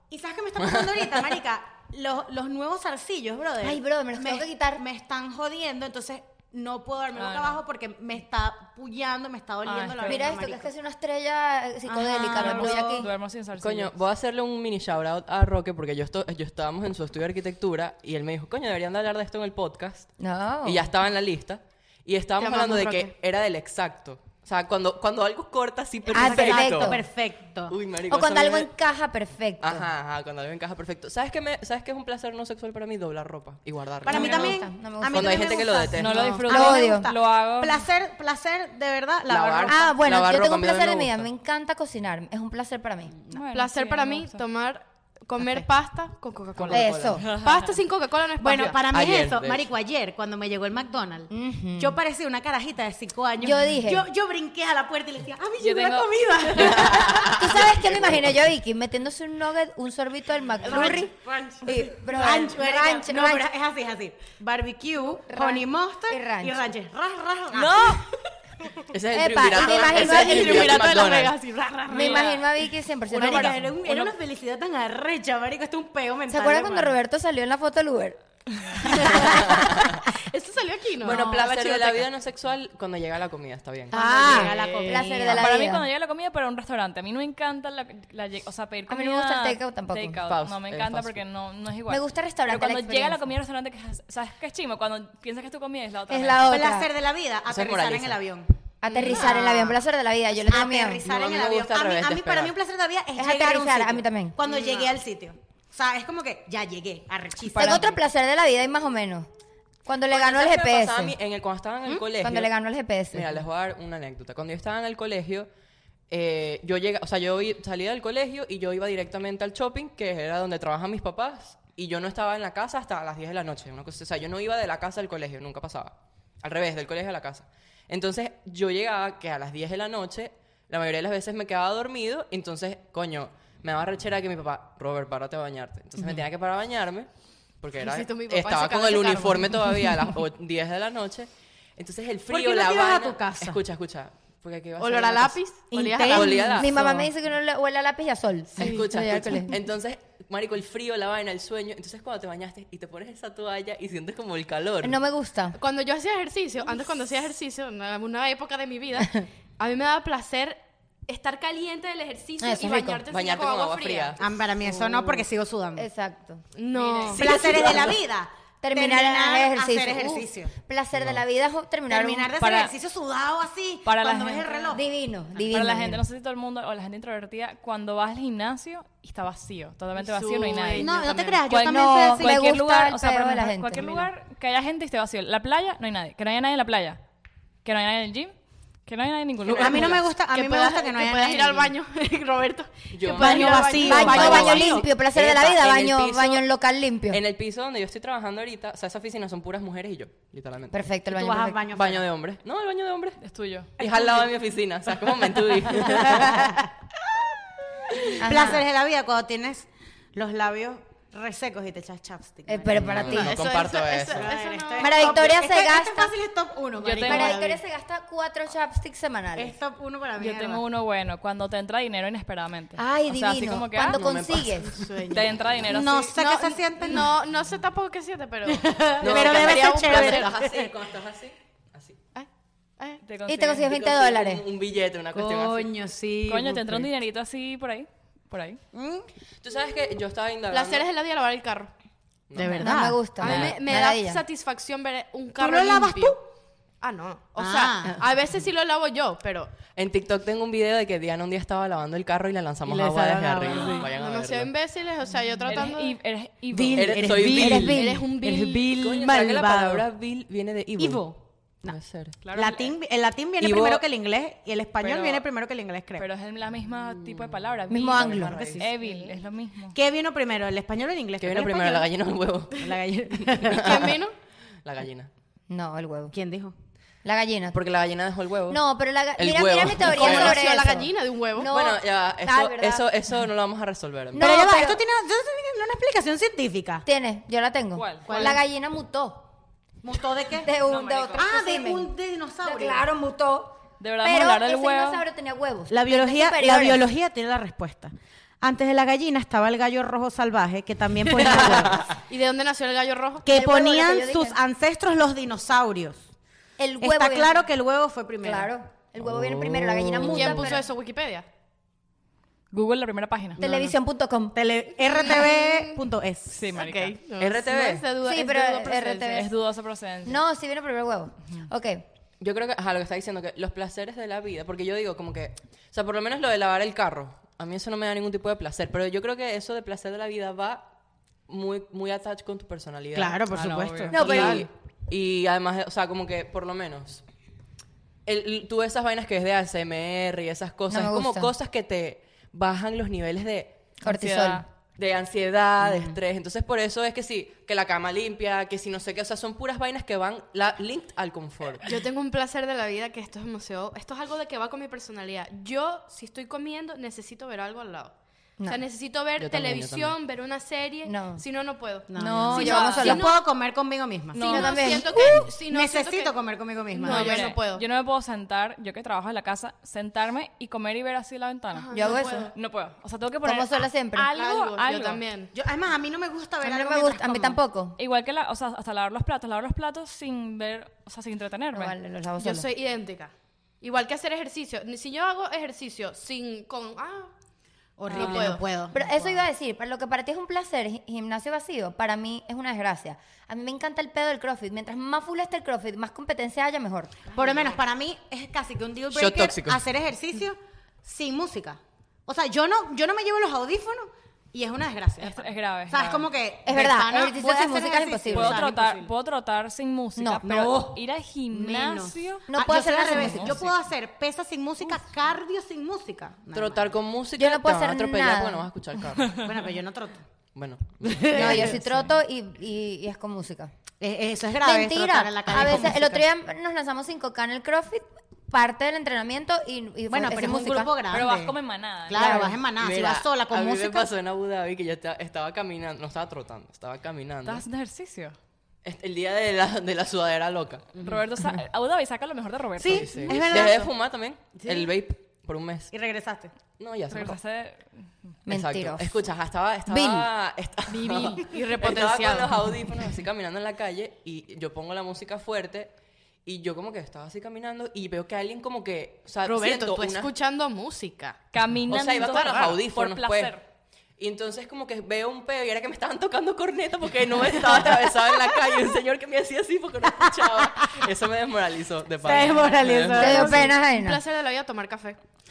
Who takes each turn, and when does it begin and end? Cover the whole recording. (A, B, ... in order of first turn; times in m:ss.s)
0:00.1-0:10.7 A
0:00.6-0:01.0 B
0:03.6-0:04.8 C
0:07.1-0:07.6 D
0:09.6-0:10.3 D
0:10.0-0:13.1 C
0:11.9-0:13.1 A
0:12.3-0:13.9 D
0:13.6-0:20.1 B
0:20.2-0:20.9 C
0:20.6-0:27.0 B
0:22.4-0:23.1 E
0:26.1-0:27.0 C
0:26.1-0:27.7 A
0:27.7-0:28.7 B
0:28.1-0:29.9 C
0:29.6-0:34.5 B
0:34.0-0:39.9 A
0:34.1-0:37.1 C
0:34.1-0:34.5 D
0:35.1-0:36.4 B
0:36.0-0:37.9 D
0:39.3-0:41.3 B
0:39.6-0:43.2 C
0:43.3-0:44.4 D
0:43.5-0:48.8 E
0:46.6-0:47.3 B
0:46.7-0:47.2 C
0:47.2-0:47.8 D
0:48.4-0:58.0 A
0:48.9-0:49.7 B
0:51.3-0:52.0 C
0:53.4-0:54.1 C
0:55.6-0:56.8 D
0:56.6-0:58.2 B
0:57.1-1:01.1 C
1:00.6-1:08.0 A
1:01.6-1:03.5 C
1:05.3-1:06.6 C
1:07.5-1:08.0 D
1:08.9-1:11.4 B
1:09.1-1:10.9 C
1:09.6-1:12.4 E
1:11.9-1:13.7 C
1:11.9-1:12.4 D
1:13.1-1:17.0 A
1:13.3-1:14.1 E
1:16.3-1:18.2 C
1:18.8-1:21.4 E
1:19.2-1:20.0 B
1:21.0-1:24.0 B
1:21.1-1:21.4 A
1:23.9-1:25.4 A
1:23.9-1:25.8 C
1:24.1-1:25.1 E
1:25.4-1:36.7 D
1:28.9-1:30.2 C
1:30.2-1:31.2 B
1:31.9-1:33.3 C
1:36.1-1:36.9 C
1:36.5-1:39.8 A
1:37.5-1:38.2 B
1:38.8-1:41.0 C
1:38.9-1:39.3 E
1:40.4-1:48.0 A
1:41.0-1:42.5 B
1:43.2-1:44.4 C
1:44.4-1:45.0 E
1:47.5-1:49.3 C
1:49.8-1:51.2 C
1:50.1-1:52.5 B
1:52.2-1:53.3 C
1:53.1-1:55.5 B
1:56.1-2:17.1 B
2:17.6-2:25.4 B
2:17.8-2:19.6 E
2:22.3-2:23.6 A
2:24.8-2:26.5 E
2:25.7-2:27.0 A
2:26.1-2:26.8 B
2:26.5-2:29.6 C
2:28.6-2:35.0 B
2:34.8-2:35.6 C
2:35.6-2:44.2 E
2:42.4-2:43.0 C
2:43.1-2:44.2 B
2:44.2-2:45.8 A
2:44.7-2:45.2 C
2:45.8-2:46.4 C
2:46.6-2:47.7 E
2:46.7-2:47.3 D
2:47.1-2:50.5 A
2:47.4-2:47.9 C
2:47.6-2:47.9 B
2:48.6-2:52.3 C
2:51.9-2:54.8 A
2:52.4-2:52.7 D
2:53.8-2:54.7 D
2:54.7-2:56.0 C
2:55.5-3:00.9 D
3:00.0-3:01.4 E
3:00.8-3:02.4 A
3:01.5-3:07.0 D
3:01.5-3:04.1 C
3:07.6-3:08.3 D
3:08.8-3:10.0 D
3:09.5-3:10.0 B
3:09.6-3:11.7 A
3:10.3-3:14.7 E
3:12.9-3:16.4 B
3:13.1-3:14.9 A
3:13.8-3:17.2 C
3:17.1-3:20.9 B
3:20.7-3:21.6 C
3:21.1-3:22.0 A
3:21.7-3:23.2 B
3:23.2-3:23.7 D
3:23.8-3:26.5 B
3:25.7-3:26.7 A
3:28.0-3:33.2 A
3:28.2-3:28.6 C
3:32.5-3:33.4 C
3:32.7-3:34.3 B
3:33.1-3:35.2 E
3:34.1-3:37.6 A
3:34.8-3:36.1 C
3:36.8-3:37.4 D
3:37.0-3:39.6 C
3:39.4-3:40.6 A
3:40.2-3:44.0 D
3:42.8-3:44.8 C
3:43.9-3:44.8 B
3:44.7-3:45.2 E
3:45.1-3:46.2 D
3:45.6-3:47.1 A
3:46.1-3:50.3 E
3:48.5-3:50.7 A
3:49.0-3:52.0 B
3:53.0-3:53.7 D
3:53.3-3:54.4 C
3:53.6-3:55.7 B
3:55.1-3:56.8 A
3:56.3-3:58.6 D
3:58.7-3:59.1 A
3:59.4-4:00.9 B
4:00.5-4:01.7 E
4:02.3-4:02.7 B
4:02.4-4:03.0 A
4:02.5-4:04.2 C
4:03.2-4:06.2 E
4:05.4-4:06.2 A
4:06.8-4:09.5 E
4:07.4-4:08.0 A
4:09.7-4:14.5 B
4:12.6-4:13.8 A
4:13.5-4:13.8 D
4:13.6-4:15.9 E
4:15.5-4:17.2 D
4:16.5-4:19.8 A
4:16.7-4:17.8 B
4:17.4-4:18.0 C
4:17.6-4:18.7 E
4:18.7-4:21.1 B
4:20.8-4:21.8 A
4:21.6-4:22.2 B
4:22.2-4:22.7 D
4:22.3-4:26.0 A
4:23.4-4:23.8 B
4:24.8-4:25.2 D
4:26.0-4:29.8 D
4:27.0-4:28.7 B
4:27.7-4:29.1 C
4:28.3-4:28.6 A
4:29.7-4:31.9 A
4:31.2-4:32.7 B
4:32.6-4:33.9 A
4:33.3-4:33.9 B
4:33.5-4:34.1 E
4:34.6-4:35.1 B
4:35.5-4:36.1 C
4:36.1-4:36.5 A
4:37.0-4:37.6 C
4:37.5-4:38.6 B
4:38.5-4:42.8 C
4:39.2-4:40.5 B
4:39.8-4:41.5 E
4:41.5-4:44.4 B
4:44.1-4:44.8 C
4:44.2-4:46.8 A
4:46.8-4:49.3 C
4:47.7-4:48.1 D
4:48.0-4:48.4 A
4:49.8-4:50.5 A
4:50.3-4:51.9 C
4:50.6-4:51.3 D
4:51.2-4:52.9 A
4:52.4-4:56.8 C
4:53.8-4:55.0 D
4:55.7-5:01.9 A
5:01.3-5:03.2 E
5:01.5-5:02.0 B
5:03.2-5:06.1 A
5:03.3-5:04.4 C
5:06.6-5:07.4 C
5:06.8-5:08.5 A
5:08.2-5:10.6 C
5:09.0-5:10.4 B
5:10.0-5:11.2 E
5:12.5-5:13.4 D
5:13.4-5:13.8 A
5:13.4-5:14.4 C
5:14.3-5:16.5 A
5:14.9-5:15.8 E
5:16.3-5:17.0 D
5:16.5-5:19.3 E
5:17.2-5:17.9 B
5:18.0-5:19.3 C
5:19.1-5:20.2 D
5:20.0-5:21.8 C
5:22.2-5:30.7 B
5:31.3-5:33.2 B
5:32.9-5:34.5 A
5:33.3-5:34.3 D
5:33.9-5:37.0 B
5:34.0-5:34.4 C
5:38.0-5:43.7 B
5:40.7-5:41.3 C
5:43.8-5:44.4 C
5:43.8-5:44.4 D
5:44.8-5:51.7 B
5:45.6-5:45.9 A
5:51.6-5:57.9 E
5:58.4-6:03.2 E
5:59.2-6:00.0 B
6:00.8-6:01.2 C
6:01.9-6:04.3 A
6:02.0-6:03.1 C
6:02.4-6:02.9 D
6:04.1-6:04.7 D
6:04.2-6:06.1 E
6:04.2-6:05.3 C
6:04.9-6:07.3 A
6:06.7-6:07.6 E
6:06.8-6:15.0 D
6:11.5-6:12.3 E
6:11.7-6:12.3 C
6:13.2-6:14.1 C
6:14.1-6:15.3 E
6:15.3-6:17.4 A
6:16.4-6:17.8 C
6:17.8-6:21.8 D
6:21.5-6:22.5 C
6:22.2-6:27.1 E
6:27.8-6:29.2 A
6:27.9-6:28.4 E
6:28.0-6:28.2 D
6:28.7-6:37.0 C
6:37.1-6:48.9 A
6:38.9-6:39.6 B
6:45.0-6:46.1 D
6:46.4-6:48.4 C
6:48.1-6:52.3 D
6:50.0-6:50.2 C
6:50.2-6:56.8 A
6:52.3-6:53.5 C
6:52.8-6:53.5 D
6:56.3-6:59.2 B
6:57.2-6:58.5 C
6:59.2-7:00.0 A
7:00.3-7:01.6 B
7:00.8-7:01.6 A
7:01.1-7:03.5 C
7:03.8-7:06.0 A
7:04.4-7:10.7 C
7:09.9-7:11.3 A
7:10.9-7:12.3 D
7:11.9-7:13.9 A
7:11.9-7:12.4 C
7:12.5-7:17.4 B
7:17.2-7:18.2 D
7:18.6-7:20.7 B
7:20.8-7:23.5 D
7:22.6-7:23.7 A
7:22.7-7:25.7 B
7:24.4-7:24.7 A
7:25.7-7:26.3 A
7:26.6-7:27.2 B
7:26.9-7:27.9 D
7:28.3-7:28.9 C
7:28.3-7:35.7 B
7:29.7-7:30.1 C
7:30.7-7:32.5 E
7:36.2-7:40.1 B
7:39.2-7:41.2 E
7:41.3-7:43.4 D
7:41.6-7:43.4 B
7:42.0-7:42.6 E
7:44.0-7:53.4 B
7:50.0-7:50.7 A
7:52.0-7:53.5 A
7:52.9-7:54.0 C
7:53.4-7:55.0 E